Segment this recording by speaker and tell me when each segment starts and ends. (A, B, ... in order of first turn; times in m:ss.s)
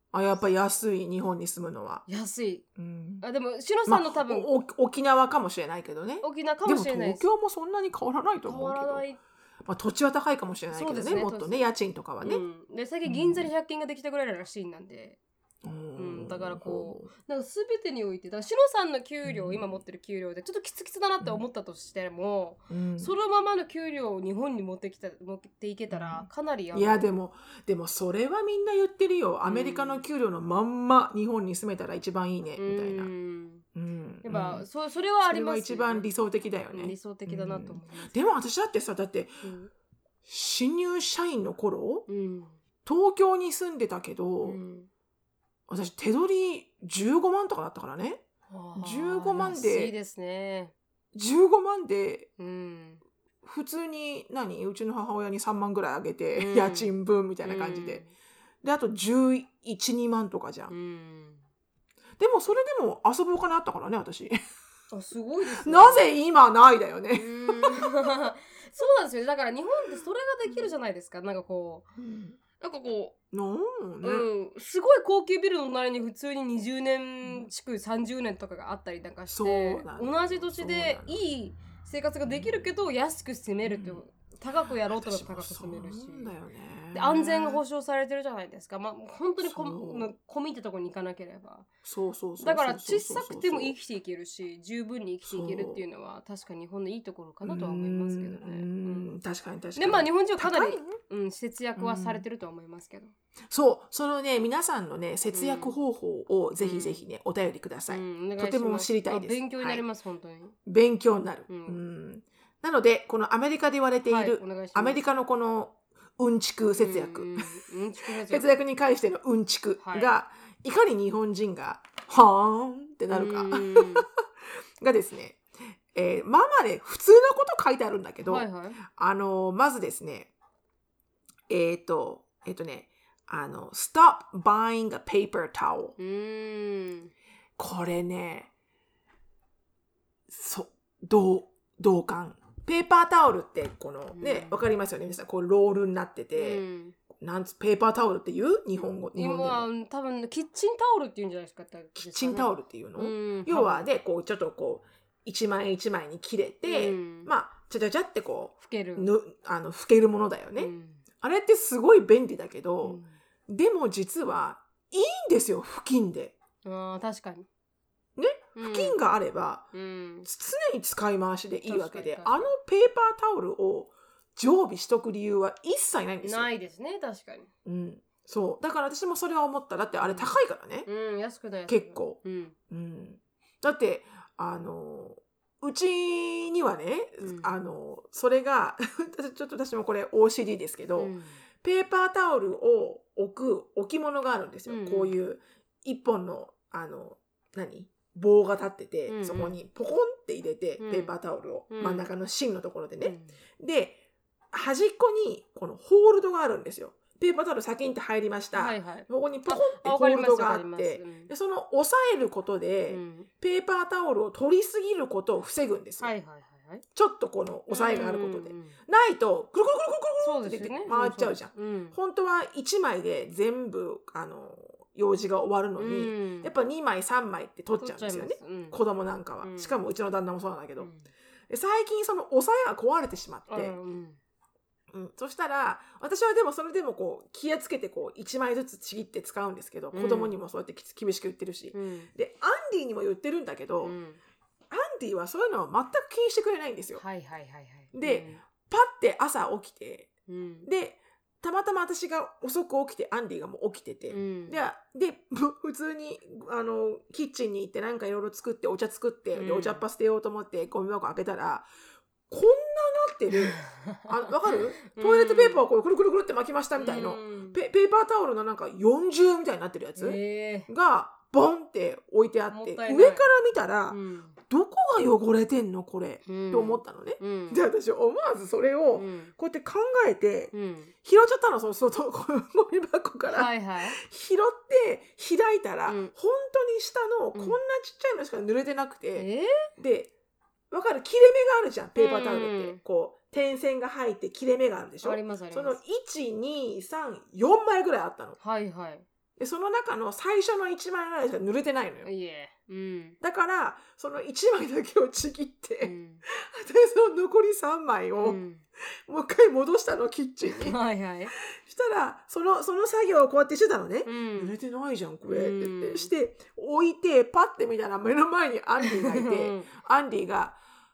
0:00.1-0:02.0 A
0:02.1-0:02.6 B
0:02.8-0:03.2 A
0:03.2-0:04.5 B
0:03.8-0:09.0 A
0:06.2-0:07.2 B
0:08.4-0:09.2 B
0:09.6-0:12.4 A
0:10.7-0:11.7 B
0:12.2-0:15.2 B
0:13.0-0:13.5 A
0:15.6-0:17.1 A
0:16.0-0:27.1 B
0:19.2-0:19.8 A
0:22.7-0:23.1 A
0:25.9-0:33.1 A
0:29.4-0:30.0 B
0:32.6-0:33.6 B
0:33.7-0:34.6 A
0:34.2-0:36.1 B
0:35.2-0:39.5 A
0:36.7-0:38.3 B
0:39.4-0:39.7 B
0:40.2-0:42.1 A
0:42.1-0:42.6 B
0:42.8-0:44.6 A
0:44.4-0:44.9 B
0:45.7-0:48.2 A
0:48.5-0:50.7 B
0:48.8-0:49.9 A
0:51.1-0:52.3 A
0:52.4-0:53.0 B
0:53.4-0:58.0 A
0:56.4-0:58.1 B
0:58.6-1:00.7 A
1:00.7-1:01.4 B
1:02.2-1:04.4 A
1:04.9-1:06.1 B
1:05.5-1:08.3 A
1:07.1-1:11.9 B
1:10.4-1:10.7 A
1:12.0-1:12.4 A
1:12.6-1:13.2 B
1:13.3-1:14.3 A
1:14.0-1:26.3 B
1:19.3-1:21.2 A
1:22.2-1:22.6 A
1:23.6-1:24.0 A
1:24.8-1:27.6 A
1:26.9-1:31.7 B
1:29.4-1:30.1 A
1:31.8-1:33.8 A
1:32.4-1:39.1 B
1:35.3-1:35.8 A
1:37.4-1:40.9 A
1:39.7-1:43.1 B
1:41.8-1:42.2 A
1:43.5-1:49.8 A
1:45.3-1:45.8 B
1:46.6-1:47.0 B
1:47.9-1:50.6 B
1:50.6-2:04.2 A
1:51.5-1:51.8 B
1:54.0-1:55.0 B
1:56.8-1:58.6 B
1:59.8-2:00.1 B
2:03.1-2:04.0 B
2:04.8-2:10.3 A
2:08.2-2:08.8 B
2:11.5-2:16.0 A
2:16.0-2:17.1 B
2:17.6-2:18.5 A
2:20.3-2:29.7 A
2:24.1-2:24.6 B
2:26.3-2:27.0 B
2:29.1-2:33.9 B
2:32.0-2:46.4 A
2:36.6-2:37.3 B
2:38.6-2:39.1 B
2:40.6-2:41.0 B
2:42.8-2:43.1 B
2:46.6-2:47.5 B
2:48.2-2:49.7 A
2:48.6-2:49.0 B
2:49.7-2:50.3 B
2:50.2-2:56.5 A
2:51.6-2:52.5 B
2:56.2-2:57.5 B
2:57.6-3:00.9 A
3:00.0-3:02.5 B
3:01.7-3:02.2 A
3:02.7-3:24.0 A
3:07.2-3:07.5 B
3:11.0-3:11.4 B
3:14.6-3:15.1 B
3:19.1-3:19.6 B
3:20.8-3:21.1 B
3:21.7-3:22.1 B
3:23.0-3:23.4 B
3:24.5-3:36.1 A
3:28.5-3:31.3 B
3:32.9-3:33.3 B
3:36.0-3:36.8 B
3:36.9-3:50.9 A
3:37.7-3:38.8 B
3:40.2-3:42.0 B
3:45.8-3:46.5 B
3:47.8-3:48.8 B
3:49.4-3:49.8 B
3:50.8-3:51.1 B
3:51.5-3:53.8 A
3:53.5-3:54.2 B
3:54.9-4:04.0 A
3:59.9-4:00.4 B
4:01.7-4:02.1 B
4:03.8-4:04.2 B
4:04.7-4:07.0 A
4:07.0-4:08.4 B
4:07.9-4:10.1 A
4:10.3-4:10.7 B
4:10.6-4:21.7 A
4:14.1-4:14.6 B
4:19.3-4:19.8 B
4:22.3-4:40.5 A
4:23.5-4:25.6 B
4:26.8-4:27.6 B
4:30.0-4:30.7 B
4:32.5-4:33.3 B
4:33.9-4:34.4 B
4:36.2-4:37.6 B
4:38.9-4:39.3 B
4:40.5-4:40.9 B
4:41.0-4:50.1 A
4:43.3-4:44.0 B
4:45.8-4:46.1 B
4:47.3-4:47.6 B
4:49.1-4:49.7 B
4:50.7-4:58.4 A
4:52.0-4:52.8 B
4:55.0-4:55.8 B
4:58.4-4:59.0 B
4:59.4-5:02.1 A
5:02.0-5:03.2 B
5:03.2-5:08.4 A
5:05.8-5:06.2 B
5:08.2-5:08.6 B
5:09.1-5:10.8 A
5:10.4-5:11.3 B
5:11.4-5:20.6 A
5:14.0-5:14.5 B
5:15.3-5:16.1 B
5:18.8-5:19.7 B